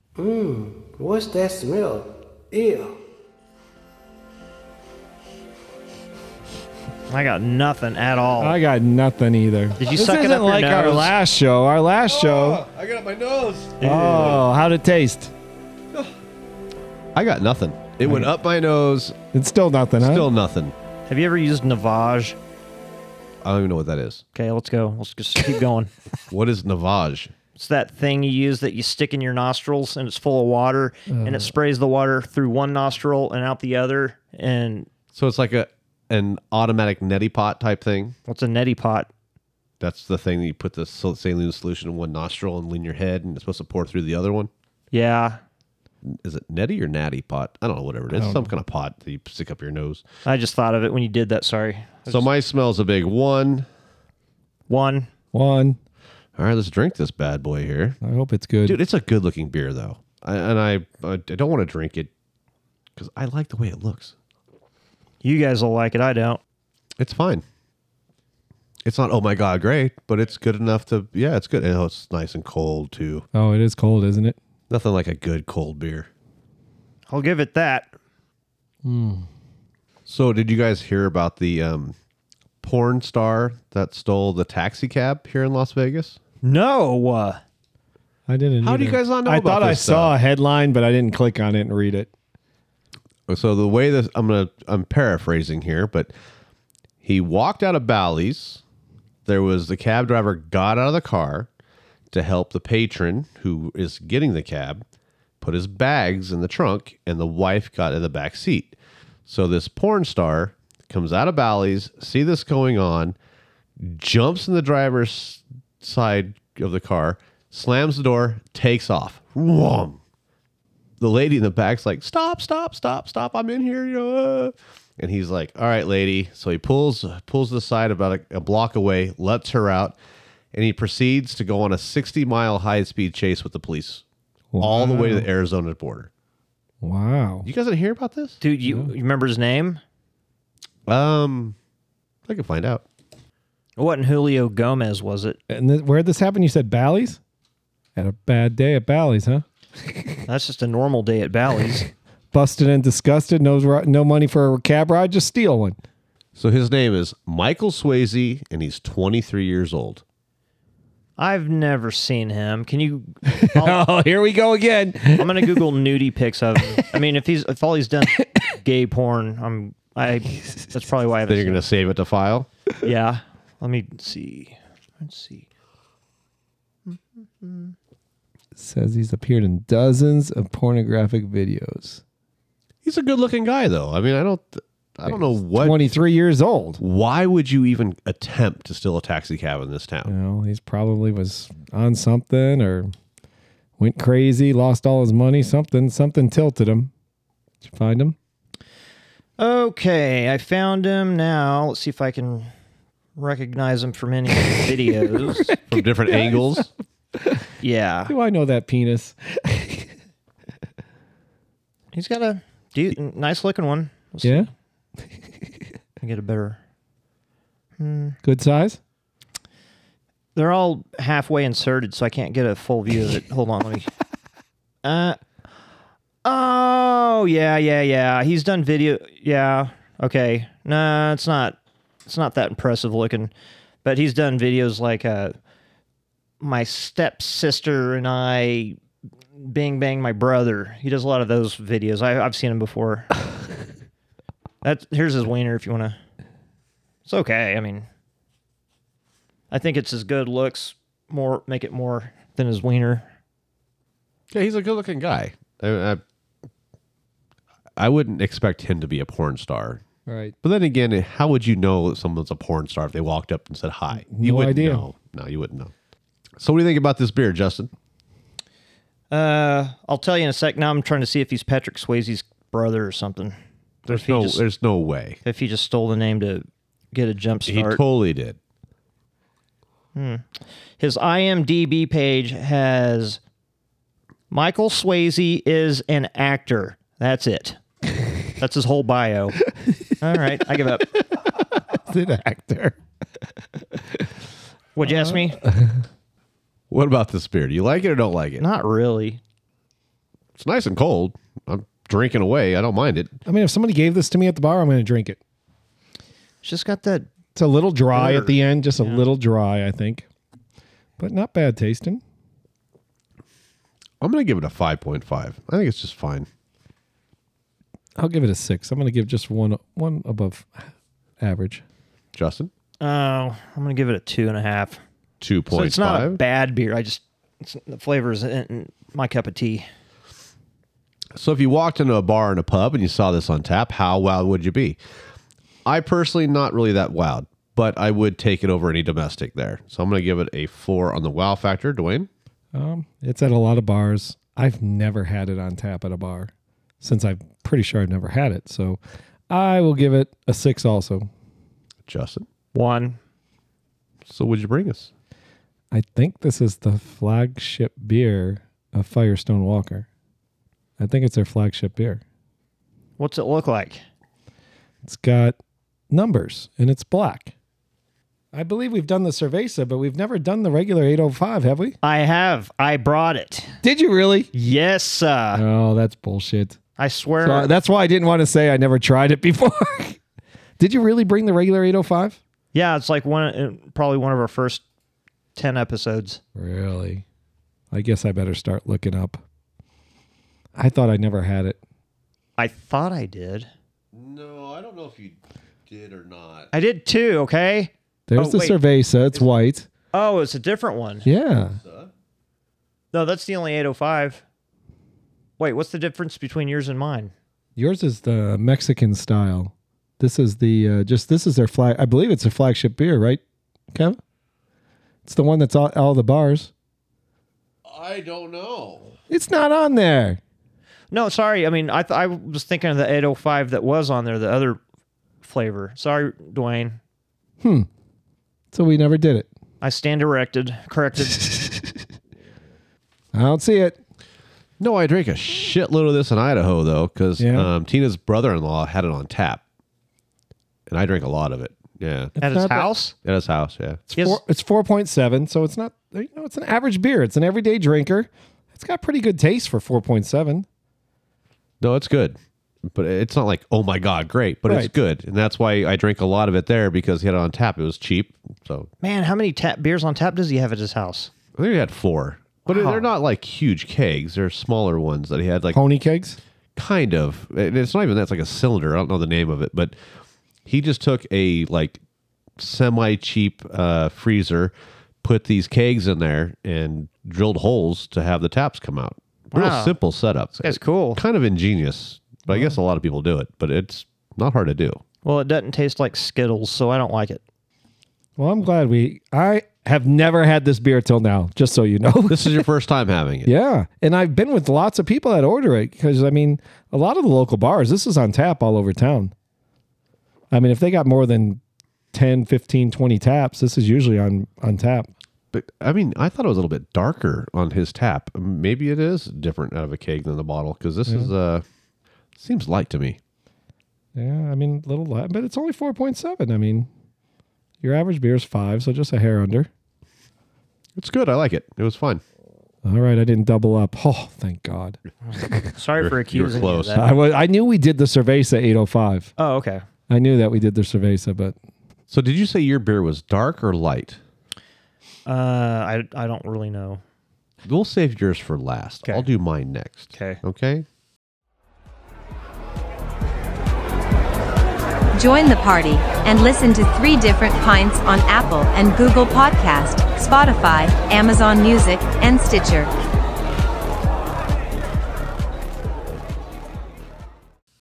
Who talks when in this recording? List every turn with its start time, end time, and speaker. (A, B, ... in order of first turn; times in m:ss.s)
0:00.2-0:02.9 A
0:07.1-0:08.6 B
0:08.4-0:12.6 C
0:09.8-0:11.2 B
0:12.1-0:14.4 D
0:13.8-0:14.4 B
0:13.8-0:15.3 C
0:17.1-0:19.2 D
0:19.3-0:20.3 C
0:20.0-0:20.7 D
0:21.1-0:22.4 B
0:23.4-0:24.2 D
0:24.4-0:25.9 B
0:26.3-0:27.3 D
0:27.6-0:34.9 B
0:31.1-0:31.5 C
0:35.1-0:38.2 D
0:38.3-0:39.1 B
0:39.8-0:44.5 D
0:44.9-0:45.4 B
0:46.0-0:50.0 D
0:48.1-0:48.5 C
0:50.2-0:52.3 B
0:52.1-0:53.7 D
0:54.7-0:55.1 B
0:55.3-0:55.8 C
0:56.4-0:58.0 D
0:58.0-0:58.8 C
0:58.6-1:02.1 D
1:02.9-1:04.1 D
1:05.2-1:06.4 B
1:07.0-1:07.4 D
1:08.8-1:13.2 D
1:13.3-1:14.4 C
1:14.7-1:16.1 D
1:17.1-1:17.9 B
1:18.8-1:19.3 C
1:20.1-1:22.0 D
1:22.6-1:26.2 D
1:26.4-1:27.4 B
1:28.3-1:32.1 C
1:28.6-1:30.1 D
1:33.3-1:36.1 D
1:37.0-1:38.6 D
1:39.2-1:41.5 D
1:42.1-1:44.8 D
1:45.4-1:48.8 D
1:49.2-1:53.2 D
1:53.8-2:00.0 D
2:01.0-2:10.0 D
2:10.5-2:14.0 D
2:14.5-2:15.3 C
2:14.6-2:16.1 D
2:16.8-2:17.5 C
2:17.4-2:18.4 D
2:18.4-2:19.8 B
2:18.6-2:18.9 C
2:20.9-2:21.6 D
2:22.3-2:22.8 D
2:23.8-2:25.4 B
2:25.5-2:27.2 C
2:28.0-2:30.2 C
2:30.3-2:31.9 B
2:32.3-2:35.8 C
2:36.4-2:40.0 D
2:41.2-2:43.8 B
2:43.3-2:45.6 C
2:45.2-2:51.6 B
2:51.3-2:52.5 D
2:52.8-2:55.5 B
2:56.9-2:57.8 B
2:58.6-3:02.0 C
3:02.8-3:05.8 D
3:05.1-3:06.8 C
3:06.8-3:10.1 D
3:10.1-3:12.9 C
3:13.8-3:16.9 C
3:17.6-3:18.2 C
3:19.4-3:22.5 B
3:23.2-3:25.5 B
3:25.1-3:26.7 C
3:25.7-3:26.7 D
3:27.6-3:28.1 B
3:28.1-3:29.9 C
3:31.9-3:34.5 B
3:34.2-3:34.5 C
3:36.0-3:36.6 B
3:37.8-3:38.2 B
3:38.2-3:38.8 C
3:40.4-3:43.9 B
3:44.8-3:45.2 B
3:46.2-3:53.3 B
3:53.8-3:55.4 B
3:56.4-3:58.8 B
3:59.4-4:03.1 B
4:04.6-4:06.0 B
4:07.1-4:07.9 B
4:09.5-4:13.1 B
4:14.3-4:16.0 D
4:17.8-4:19.8 D
4:20.1-4:20.4 C
4:20.4-4:25.7 D
4:24.0-4:24.9 C
4:26.4-4:27.7 D
4:29.1-4:33.4 B
4:33.9-4:35.2 D
4:33.9-4:34.4 B
4:35.2-4:37.8 B
4:37.5-4:38.4 D
4:40.0-4:40.2 B
4:40.8-4:43.2 B
4:44.3-4:47.6 B
4:48.4-4:49.4 B
4:50.0-4:50.9 B
4:51.7-4:52.8 C
4:54.8-4:55.4 B
4:54.8-4:55.8 C
4:56.7-4:58.4 D
4:58.4-4:59.2 B
5:00.4-5:03.2 D
5:03.3-5:05.2 C
5:06.4-5:07.1 B
5:07.4-5:10.1 C
5:07.9-5:09.0 B
5:11.0-5:12.0 C
5:14.0-5:16.3 D
5:18.0-5:20.7 C
5:21.2-5:21.6 C
5:22.1-5:22.5 D
5:22.8-5:24.8 B
5:25.2-5:26.2 D
5:25.5-5:29.6 B
5:31.2-5:34.8 D
5:35.6-5:42.1 D
5:42.5-5:51.1 C
5:51.9-5:52.3 D
5:52.5-5:53.0 B
5:54.1-5:54.9 D
5:55.7-5:59.9 C
6:00.8-6:02.0 C
6:03.0-6:03.8 B
6:04.8-6:05.4 C
6:05.9-6:07.3 C
6:08.3-6:11.8 C
6:11.8-6:13.5 B
6:13.6-6:14.3 C
6:14.3-6:15.4 B
6:15.4-6:16.6 C
6:16.8-6:17.5 B
6:17.2-6:20.0 C
6:20.6-6:22.2 C
6:22.5-6:24.6 B
6:25.4-6:26.2 B
6:26.4-6:27.0 C
6:27.7-6:29.2 C
6:30.6-6:31.6 C
6:32.4-6:33.5 B
6:33.9-6:36.5 D
6:36.5-6:38.6 B
6:38.1-6:39.7 C
6:39.9-6:41.1 B
6:41.0-6:41.6 C
6:41.6-6:41.9 D
6:42.9-6:44.2 B
6:45.4-6:47.1 B
6:47.6-6:53.2 C
6:53.7-6:54.0 C
6:55.0-6:56.5 C
6:57.6-6:59.0 D
6:59.1-7:00.2 C
7:00.9-7:04.6 B
7:05.2-7:06.8 B
7:07.4-7:07.7 C
7:08.5-7:09.3 C
7:09.6-7:11.2 B
7:13.1-7:13.8 C
7:14.6-7:19.4 D
7:17.2-7:17.5 C
7:20.7-7:22.1 D
7:22.2-7:22.7 C
7:22.2-7:23.0 B
7:23.0-7:23.8 D
7:23.9-7:30.5 C
7:24.0-7:24.2 B
7:31.6-7:38.7 D
7:38.8-7:41.1 B
7:41.4-7:45.6 D
7:42.5-7:42.9 B
7:45.5-7:46.2 C
7:46.6-7:49.8 D
7:50.4-7:51.8 D
7:52.4-8:04.8 D
7:59.3-7:59.8 B
8:00.4-8:01.0 B
8:05.0-8:07.2 B
8:08.2-8:12.5 C
8:12.1-8:13.3 D
8:13.2-8:19.1 C
8:20.3-8:21.4 C
8:21.9-8:24.9 C
8:25.3-8:31.4 D
8:32.2-8:33.0 D
8:34.0-8:36.7 C
8:37.6-8:39.5 C
8:40.8-8:42.0 D
8:42.6-8:45.5 C
8:45.1-8:46.9 B
8:45.8-8:46.8 D
8:46.8-8:49.1 C
8:49.2-8:49.6 B
8:49.9-8:51.4 C
8:51.9-8:54.0 D
8:55.1-8:56.8 B
8:57.4-9:00.6 D
8:58.8-8:59.1 B
8:59.9-9:00.2 B
9:05.0-9:12.7 E